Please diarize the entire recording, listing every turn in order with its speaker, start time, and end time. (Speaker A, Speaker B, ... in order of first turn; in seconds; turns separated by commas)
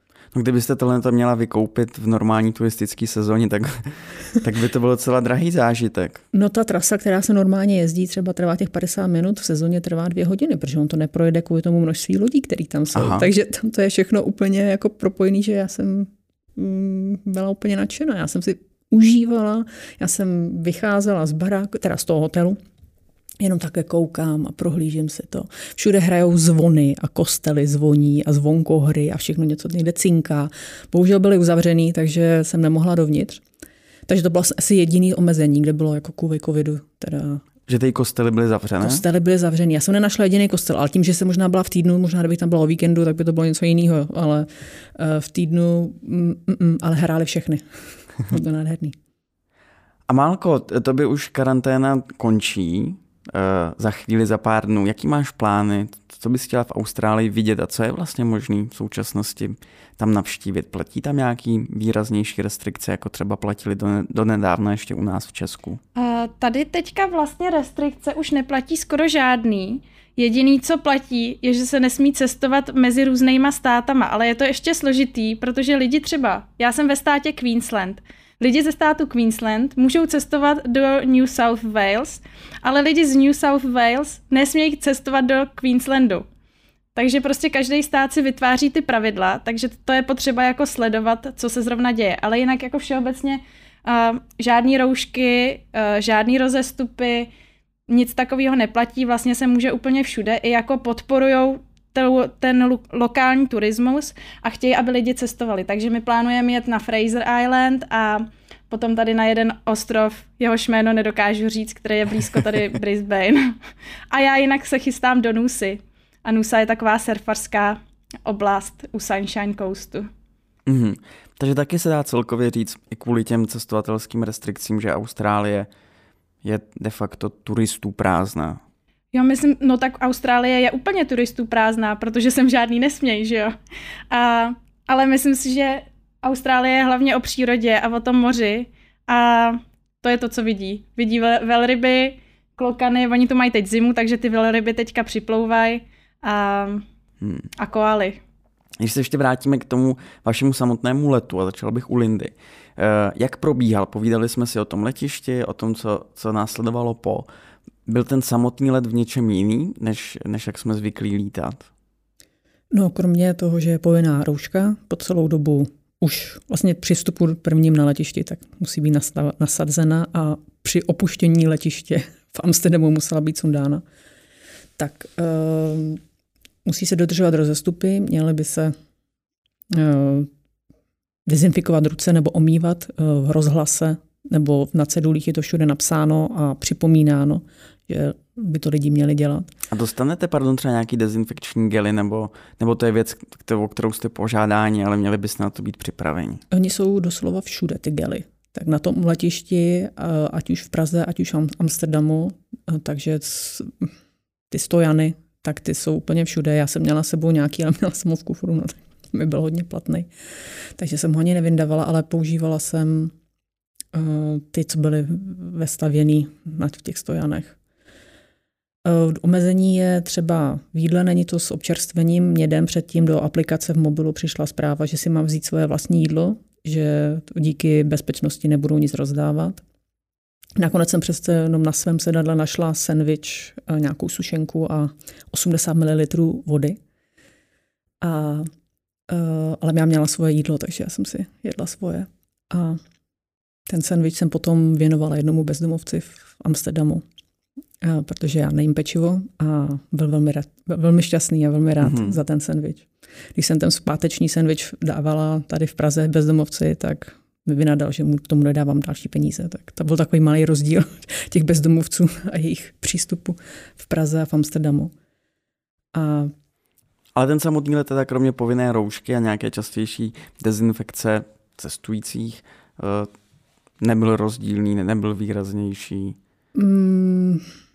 Speaker A: 0.3-6.2, Speaker B: 6.3-22.6, Speaker A: 12.9-13.3, Speaker B: 23.4-33.4, Speaker B: 34.1-37.4, Speaker A: 37.7-39.0, Speaker B: 38.8-49.0, Speaker A: 50.1-65.8, Speaker C: 65.9-86.2, Speaker C: 86.9-97.3, Speaker C: 97.9-113.6, Speaker C: 114.1-120.1, Speaker A: 120.7-125.7, Speaker A: 126.4-128.6, Speaker C: 129.1-133.6, Speaker C: 134.1-146.8, Speaker A: 147.2-147.5, Speaker C: 147.6-148.2, Speaker A: 148.8-157.2, Speaker A: 157.8-161.7, Speaker B: 162.7-173.8, Speaker B: 174.8-176.0, Speaker B: 176.6-178.7, Speaker B: 179.7-180.3, Speaker B: 181.2-189.5, Speaker A: 189.7-196.4, Speaker B: 196.5-203.9, Speaker B: 204.5-210.1, Speaker B: 210.8-213.1, Speaker B: 213.9-217.6, Speaker B: 218.8-229.6, Speaker B: 230.6-236.8, Speaker B: 238.0-238.5, Speaker B: 239.1-242.8, Speaker B: 243.7-247.0, Speaker B: 247.8-264.9, Speaker A: 251.8-252.2, Speaker B: 265.9-266.3, Speaker A: 267.1-273.1, Speaker A: 273.8-276.2, Speaker B: 276.5-277.4